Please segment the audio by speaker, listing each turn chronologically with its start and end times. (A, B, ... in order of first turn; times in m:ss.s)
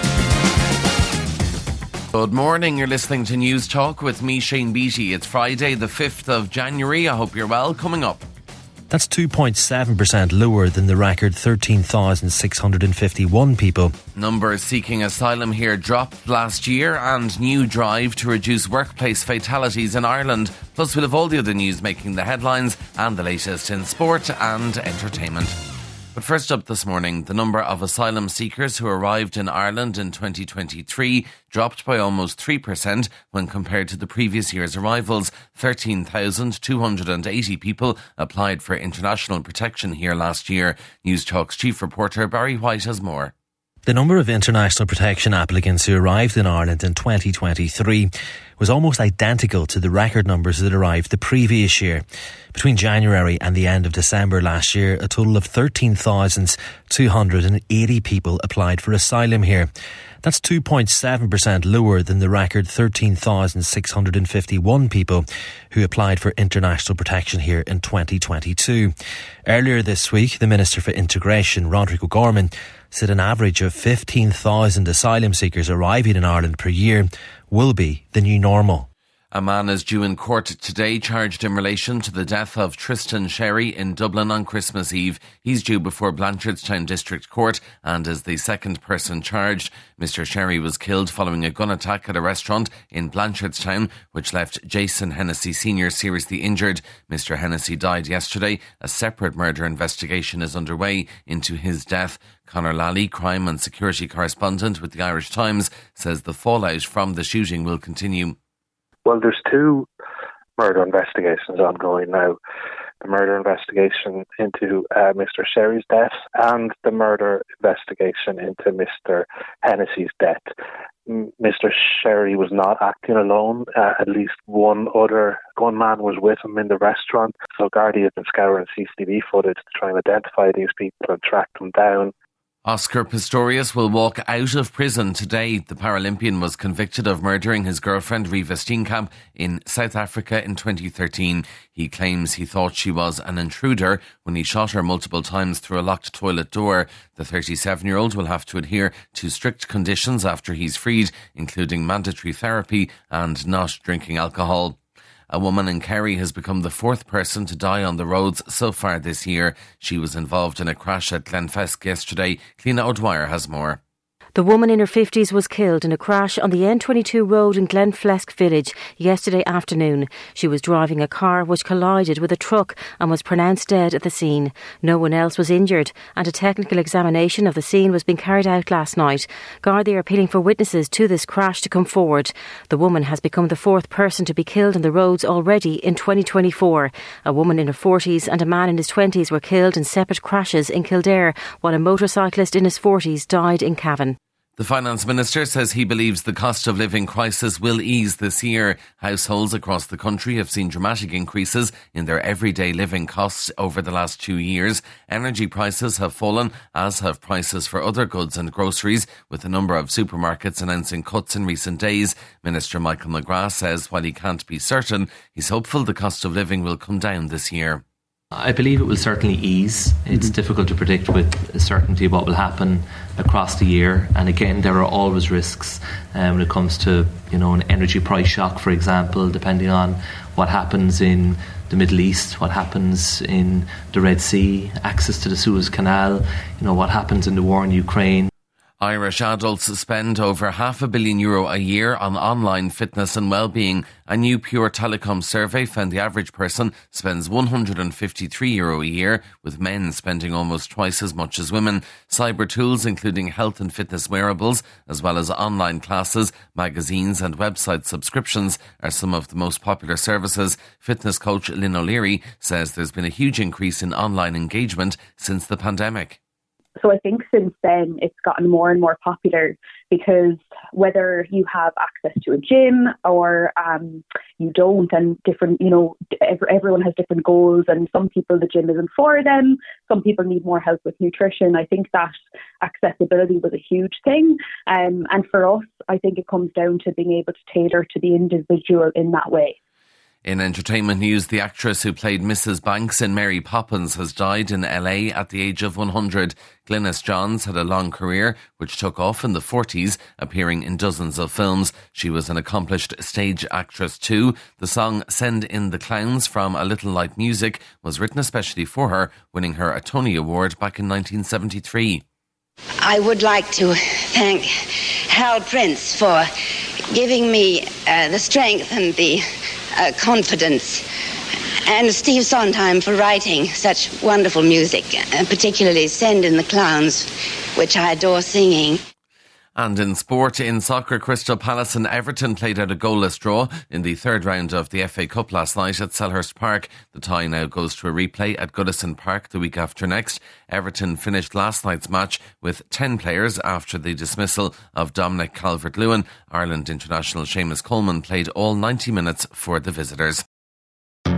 0:02.1-0:08.2 A
0:08.9-0:13.9 B
0:14.2-0:25.6 A
0:26.2-0:43.3 A
0:43.9-0:52.0 B
0:52.5-0:59.7 B
1:00.2-1:08.9 B
1:09.5-1:18.9 B
1:19.3-1:48.4 A
1:49.0-1:49.9 C
1:50.6-1:52.4 C
1:53.0-2:00.4 C
2:01.1-2:12.1 C
2:12.6-2:34.8 A
2:35.3-2:43.8 A
2:44.4-3:14.2 D
3:14.6-3:37.8 A
3:38.3-3:58.3 E
3:58.8-4:26.2 A
4:26.8-4:49.6 F
4:50.2-5:12.0 A
5:12.8-5:14.5 G
5:15.1-5:16.3 G
5:16.9-5:19.2 G
5:19.8-5:20.8 G
5:21.7-5:28.8 G
5:29.6-5:50.2 A